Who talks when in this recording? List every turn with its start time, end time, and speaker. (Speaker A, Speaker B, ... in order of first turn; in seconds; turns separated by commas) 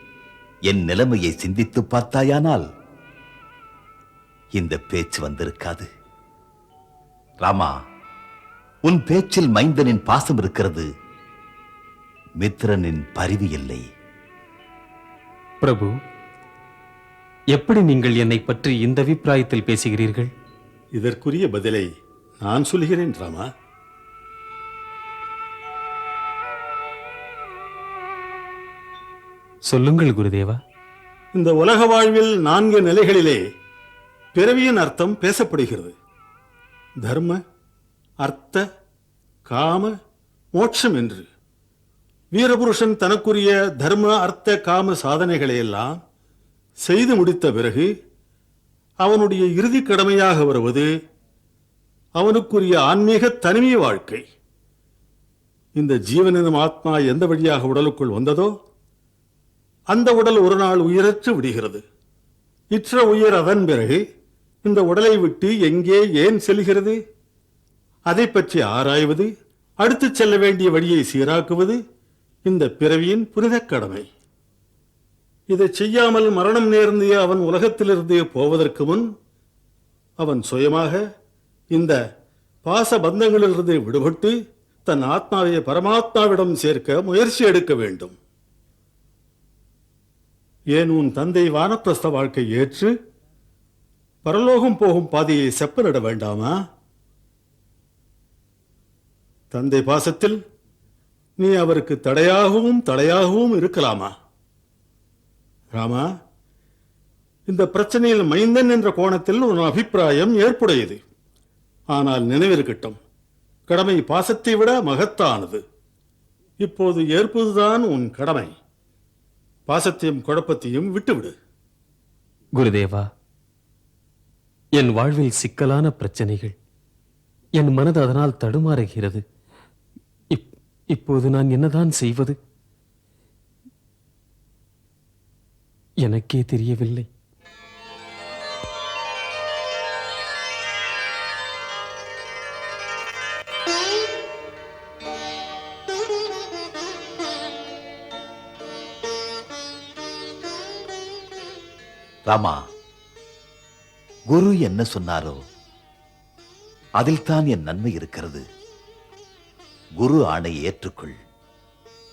Speaker A: 0.7-2.7, Speaker A: 4.5-5.9, Speaker A: 7.4-7.7, Speaker A: 8.8-10.9, Speaker A: 12.4-13.8, Speaker B: 15.6-15.9, Speaker B: 17.5-20.3, Speaker C: 21.0-21.9, Speaker C: 22.4-23.5, Speaker B: 29.7-30.6, Speaker C: 31.3-33.4, Speaker C: 34.3-35.9, Speaker C: 37.0-37.4, Speaker C: 38.2-38.6, Speaker C: 39.5-39.9, Speaker C: 40.5-41.3, Speaker C: 42.3-46.0, Speaker C: 46.9-47.9, Speaker C: 49.0-50.9, Speaker C: 52.2-54.2, Speaker C: 55.8-58.5, Speaker C: 59.9-61.8, Speaker C: 62.7-64.0, Speaker C: 64.6-67.0, Speaker C: 68.1-69.3, Speaker C: 69.8-71.8, Speaker C: 72.5-74.1, Speaker C: 75.5-79.1, Speaker C: 80.2-81.0, Speaker C: 81.7-82.0, Speaker C: 82.7-84.3, Speaker C: 84.9-88.1, Speaker C: 90.7-92.9, Speaker C: 94.2-96.5, Speaker C: 99.5-100.4, Speaker C: 101.4-104.1, Speaker C: 105.7-106.1, Speaker C: 107.5-111.0, Speaker C: 111.9-113.0, Speaker C: 113.7-115.6, Speaker C: 116.6-118.5, Speaker C: 119.7-121.3, Speaker B: 122.6-123.1, Speaker B: 124.8-126.5, Speaker B: 127.6-129.2, Speaker B: 130.3-132.4, Speaker B: 136.0-137.1, Speaker A: 152.3-152.6, Speaker A: 154.3-155.4, Speaker A: 157.0-158.4, Speaker A: 160.0-161.2